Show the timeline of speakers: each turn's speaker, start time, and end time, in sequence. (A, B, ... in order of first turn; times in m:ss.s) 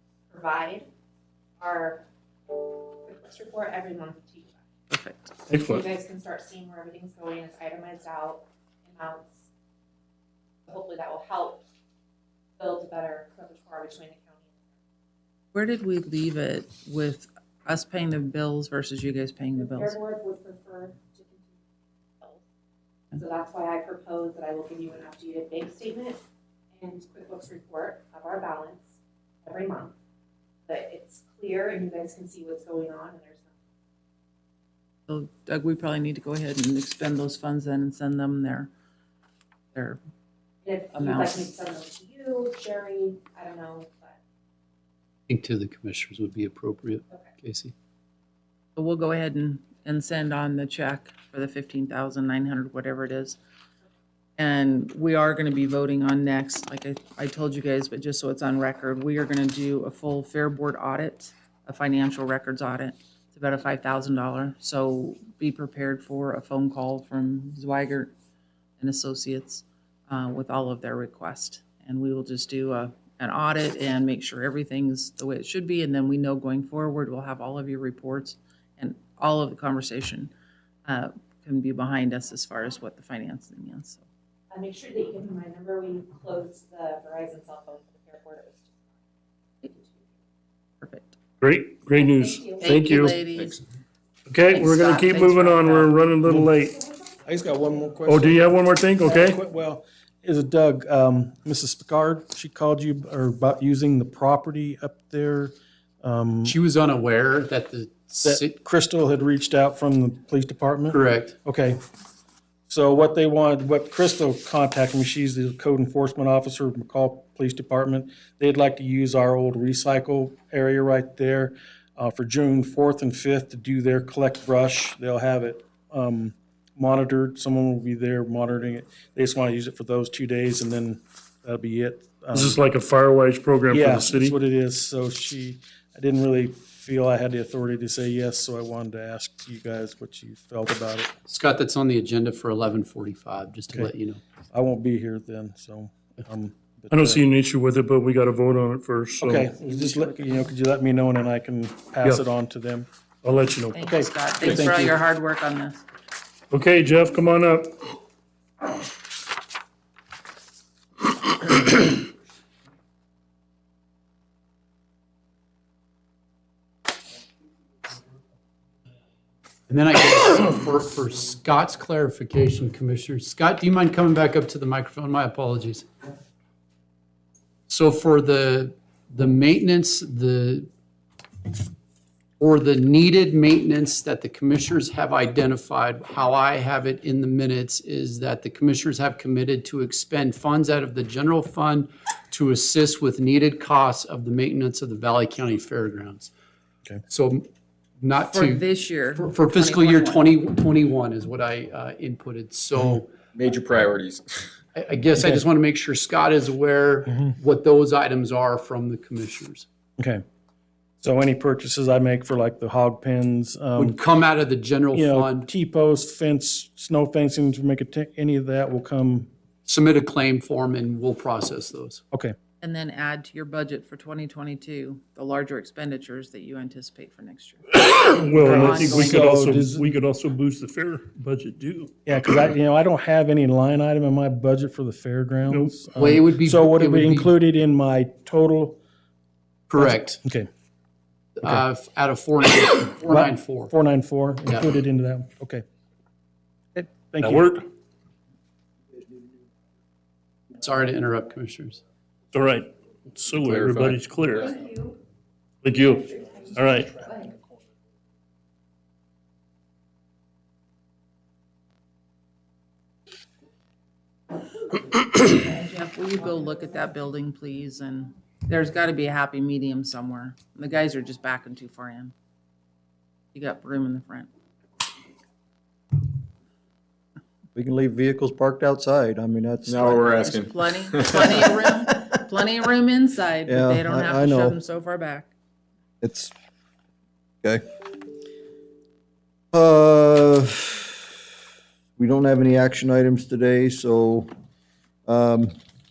0:00.3-0:00.9 A
0:01.6-0:04.6 A
0:04.9-0:05.4 B
0:05.5-0:09.5 A
0:05.5-0:05.8 C
0:10.6-0:11.6 A
0:12.6-0:14.6 A
0:15.5-0:20.0 B
0:19.6-0:21.6 A
0:23.1-0:26.2 A
0:26.8-0:29.9 A
0:30.6-0:33.5 A
0:35.1-0:38.7 B
0:39.7-0:40.0 B
0:40.6-0:44.2 A
0:40.9-0:41.4 B
0:45.3-0:47.7 D
0:48.8-0:53.4 B
0:54.4-1:08.1 B
1:08.8-1:20.3 B
1:20.8-1:24.0 B
1:24.5-1:28.8 A
1:29.6-1:30.0 A
1:30.8-1:31.1 B
1:31.4-1:33.2 C
1:31.9-1:32.7 A
1:32.6-1:33.6 B
1:34.3-1:36.8 C
1:34.5-1:35.9 B
1:36.2-1:36.5 E
1:37.2-1:38.5 E
1:38.0-1:39.4 C
1:39.0-1:46.6 E
1:46.4-1:48.5 D
1:48.2-1:51.8 E
1:50.9-1:51.3 D
1:52.7-2:12.6 E
2:12.3-2:14.4 C
2:13.7-2:21.1 E
2:21.3-2:24.2 D
2:24.5-2:27.2 E
2:26.9-2:29.5 C
2:29.2-2:32.9 E
2:29.5-2:30.5 B
2:33.2-2:33.8 C
2:33.7-2:35.8 B
2:33.8-2:34.9 E
2:36.5-2:37.8 C
2:49.7-2:55.8 D
2:57.7-3:00.7 D
3:02.4-3:16.3 D
3:17.1-3:17.5 D
3:18.0-3:18.6 D
3:18.3-3:20.4 B
3:19.2-3:23.1 D
3:23.3-3:24.5 F
3:24.7-3:29.6 D
3:27.1-3:27.4 E
3:30.0-3:30.2 E
3:31.0-3:34.0 E
3:33.8-3:35.5 D
3:34.9-3:39.3 E
3:39.6-3:42.0 D
3:42.6-3:49.2 B
3:47.8-3:51.9 C
3:48.4-3:49.9 E
3:52.0-3:58.8 E
3:55.5-3:56.0 C
3:56.0-3:57.4 D
3:59.7-4:00.2 D
3:59.8-4:00.5 E
4:01.4-4:03.7 D
4:03.1-4:05.6 E
4:06.7-4:07.6 E
4:07.2-4:07.6 C
4:10.5-4:11.8 D
4:12.3-4:14.6 C
4:13.3-4:14.6 F
4:15.6-4:17.0 C
4:25.1-4:32.1 B
4:33.3-4:34.3 B
4:37.5-4:40.0 G
4:39.7-4:41.5 F
4:39.8-4:45.3 B
4:43.5-4:44.6 G
4:46.0-4:46.3 G
4:49.5-4:50.9 G
4:52.0-4:54.3 G
4:55.0-4:55.5 G